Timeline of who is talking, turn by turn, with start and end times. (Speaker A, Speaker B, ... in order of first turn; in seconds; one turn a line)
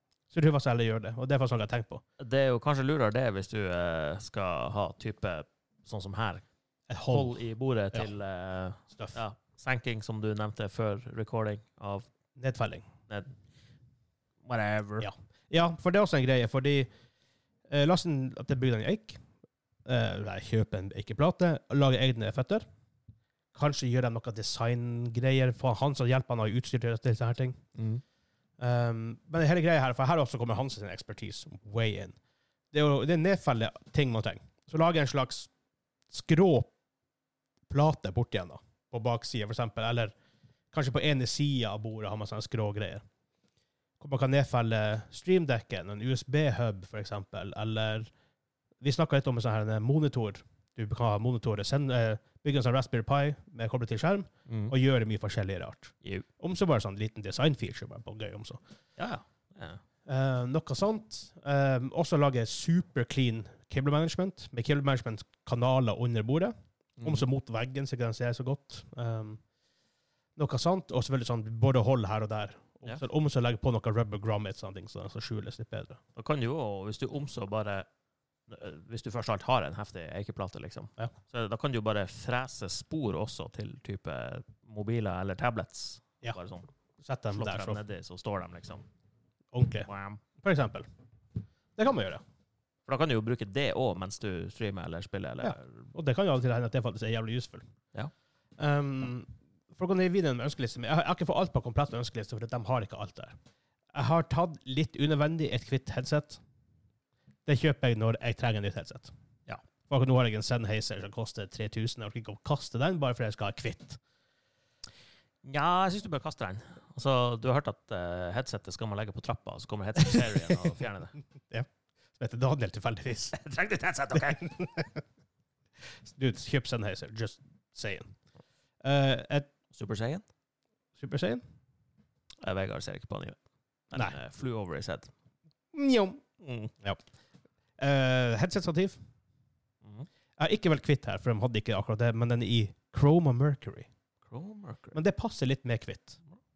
Speaker A: 0.3-2.0
Speaker B: 2.2-6.4
Speaker A: 6.9-7.4
Speaker B: 7.1-12.1
Speaker A: 12.4-12.8
Speaker B: 14.4-15.1
Speaker A: 15.0-16.9
Speaker A: 17.7-19.2
Speaker A: 19.9-22.6
Speaker A: 23.5-27.6
Speaker B: 27.8-28.0
Speaker A: 28.6-32.1
Speaker A: 32.7-35.5
Speaker A: 36.1-36.7
Speaker A: 37.7-40.1
Speaker A: 40.7-43.0
Speaker A: 44.0-48.1
Speaker A: 48.8-58.6
Speaker B: 54.5-54.7
Speaker B: 59.0-59.8
Speaker A: 60.0-69.4
Speaker B: 67.0-67.2
Speaker A: 70.4-76.0
Speaker B: 76.1-77.9
Speaker B: 78.5-86.7
Speaker A: 87.0-87.8
Speaker B: 87.3-88.8
Speaker A: 89.5-89.9
Speaker B: 89.9-90.2
Speaker A: 90.4-90.8
Speaker A: 91.8-92.2
Speaker B: 92.9-95.8
Speaker A: 95.4-97.6
Speaker A: 98.6-103.3
Speaker A: 103.9-106.4
Speaker A: 107.5-109.1
Speaker A: 109.9-114.0
Speaker B: 115.4-121.1
Speaker A: 122.2-123.3
Speaker B: 123.3-124.5
Speaker A: 124.1-125.0
Speaker A: 126.0-128.1
Speaker A: 128.8-129.5
Speaker B: 129.7-130.2
Speaker A: 131.0-131.4
Speaker B: 132.4-133.4
Speaker B: 133.9-135.1
Speaker A: 135.7-136.2
Speaker B: 136.4-136.7
Speaker A: 137.8-139.0
Speaker A: 140.4-143.9
Speaker B: 144.2-144.9
Speaker A: 144.9-146.2